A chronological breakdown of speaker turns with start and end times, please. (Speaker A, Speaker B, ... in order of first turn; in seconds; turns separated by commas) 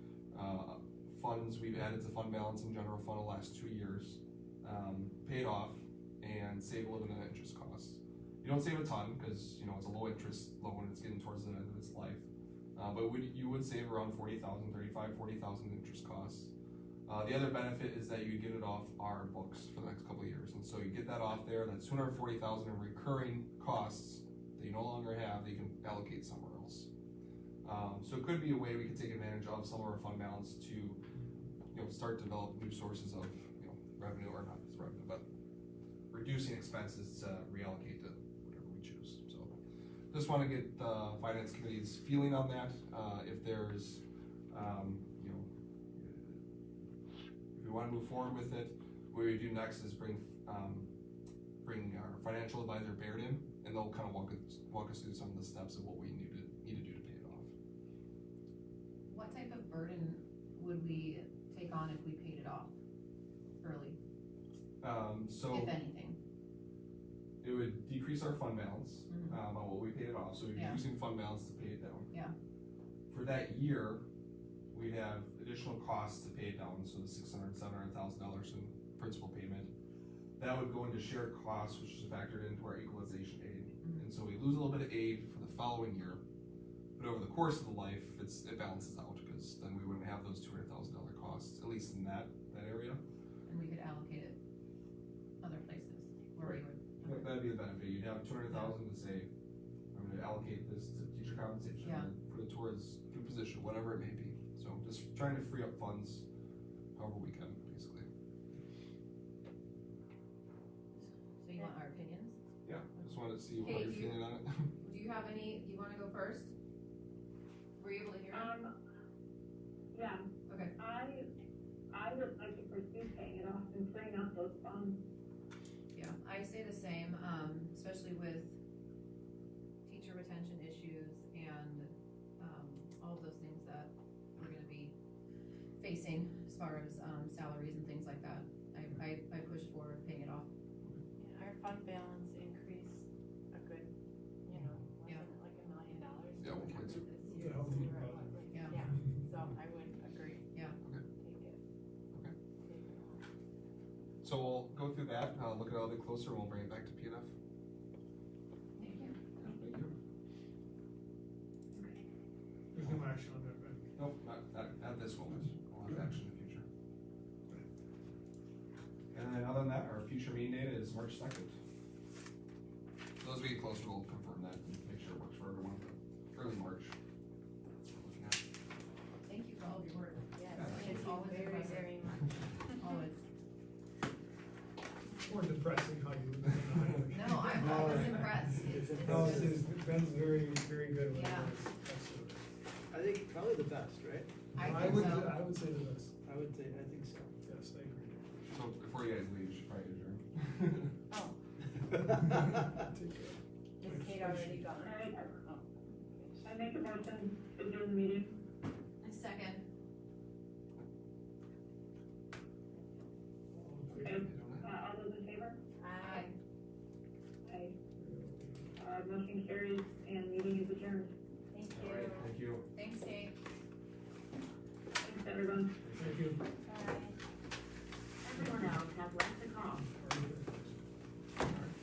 Speaker A: 0.3-16.5, Speaker A: 17.1-26.9, Speaker A: 27.6-31.0, Speaker A: 31.7-35.3, Speaker A: 36.1-39.6, Speaker A: 40.1-46.4, Speaker A: 47.5-50.9, Speaker A: 51.6-57.5, Speaker B: 59.1-62.8, Speaker B: 63.6-64.0, Speaker A: 64.8-65.8, Speaker B: 65.5-66.2, Speaker A: 67.4-72.1, Speaker B: 69.1-69.4, Speaker B: 70.5-70.8, Speaker A: 73.1-74.0, Speaker A: 74.7-79.7, Speaker A: 80.4-86.2, Speaker A: 87.0-93.0, Speaker B: 93.5-94.4, Speaker B: 95.4-97.4, Speaker A: 96.4-99.3, Speaker B: 98.5-98.7, Speaker A: 99.9-106.3, Speaker B: 101.8-102.1, Speaker A: 107.0-108.1, Speaker B: 110.9-112.4, Speaker A: 112.7-114.7, Speaker B: 113.5-114.3, Speaker B: 114.8-116.5, Speaker B: 117.8-118.5, Speaker C: 118.3-118.7, Speaker C: 119.9-120.2, Speaker B: 120.5-120.7, Speaker C: 120.8-121.2, Speaker C: 121.9-125.0, Speaker B: 125.9-128.6, Speaker B: 129.9-135.0, Speaker B: 135.8-140.5, Speaker D: 141.2-143.9, Speaker D: 144.4-150.6, Speaker A: 146.4-147.1, Speaker E: 147.3-148.8, Speaker B: 148.5-148.8, Speaker B: 150.5-150.8, Speaker D: 151.1-151.6, Speaker D: 152.6-153.2, Speaker A: 154.2-157.3, Speaker B: 158.8-159.2, Speaker A: 159.4-159.9, Speaker E: 162.7-163.8, Speaker A: 164.0-166.7, Speaker A: 169.1-171.6, Speaker A: 173.2-177.0, Speaker A: 177.9-178.4, Speaker B: 179.3-182.0, Speaker D: 180.3-182.8, Speaker A: 180.5-181.0, Speaker B: 182.8-183.2, Speaker E: 185.2-192.4, Speaker B: 187.1-189.7, Speaker F: 187.7-189.6, Speaker B: 191.1-191.6, Speaker F: 192.9-195.0, Speaker B: 194.6-195.4, Speaker E: 194.6-196.2, Speaker F: 196.2-197.4, Speaker E: 197.4-198.1, Speaker A: 198.1-200.9, Speaker D: 201.1-201.4, Speaker E: 202.0-204.7, Speaker D: 203.8-206.5, Speaker C: 204.8-205.4, Speaker C: 206.4-208.3, Speaker B: 209.0-209.7, Speaker E: 213.5-214.3, Speaker C: 213.9-215.6, Speaker A: 214.3-214.7, Speaker D: 215.8-216.3, Speaker B: 216.0-216.4, Speaker C: 217.4-217.8, Speaker E: 218.0-218.7, Speaker C: 218.8-221.1, Speaker D: 221.5-222.3, Speaker A: 221.7-222.7, Speaker B: 222.7-223.4, Speaker C: 225.0-225.8, Speaker A: 225.8-226.3, Speaker E: 226.0-226.4, Speaker D: 226.7-227.2, Speaker C: 228.2-229.9, Speaker E: 229.9-230.8, Speaker A: 231.4-231.7